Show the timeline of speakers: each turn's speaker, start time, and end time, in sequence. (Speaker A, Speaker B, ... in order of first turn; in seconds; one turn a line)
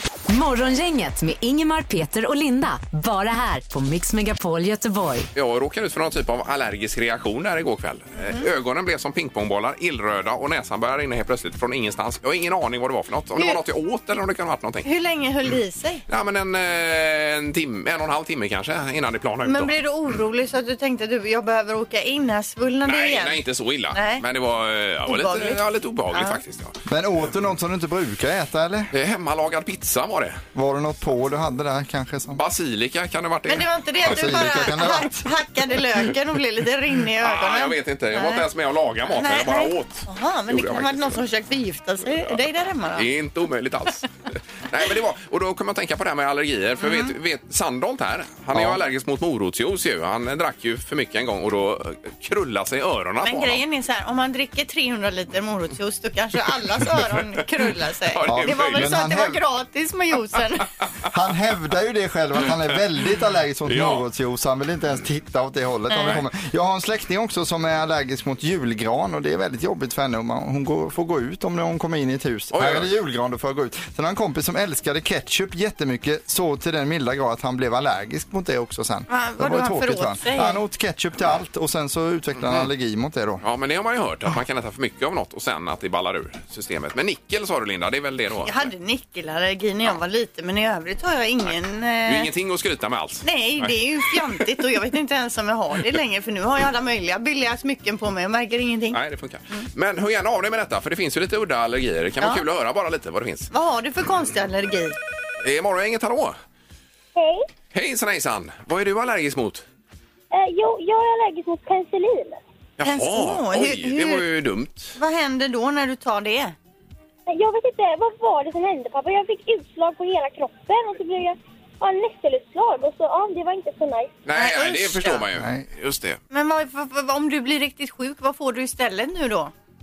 Speaker A: 0.3-5.3
Speaker B: 5.3-14.9
Speaker C: 14.8-16.0
Speaker B: 16.1-19.7
Speaker C: 19.4-23.4
Speaker B: 22.8-26.8
Speaker C: 23.9-24.2
Speaker C: 25.1-26.4
Speaker D: 26.9-28.9
Speaker B: 28.9-30.4
Speaker D: 30.5-32.4
Speaker B: 32.3-33.7
Speaker C: 33.5-38.4
Speaker D: 34.0-35.3
Speaker B: 37.2-41.2
Speaker C: 39.1-43.1
Speaker B: 43.0-44.1
Speaker B: 44.7-53.6
Speaker C: 46.8-47.1
Speaker D: 48.5-48.8
Speaker C: 53.2-60.7
Speaker B: 58.1-58.9
Speaker D: 58.3-59.4
Speaker D: 61.1-83.4
Speaker B: 63.7-64.0
Speaker C: 65.9-66.2
Speaker B: 72.5-72.9
Speaker C: 79.1-80.6
Speaker B: 83.4-88.7
Speaker C: 88.4-92.3
Speaker B: 92.0-93.8
Speaker C: 93.2-99.0
Speaker B: 98.9-103.5
Speaker C: 103.5-105.0
Speaker B: 105.4-106.3
Speaker E: 107.1-107.5
Speaker B: 107.7-109.6
Speaker E: 110.3-112.4
Speaker B: 112.8-115.0
Speaker C: 112.8-114.2
Speaker C: 115.0-116.5
Speaker E: 117.3-124.1
Speaker B: 124.2-126.2
Speaker C: 124.3-125.2
Speaker D: 125.3-125.6
Speaker C: 126.3-129.5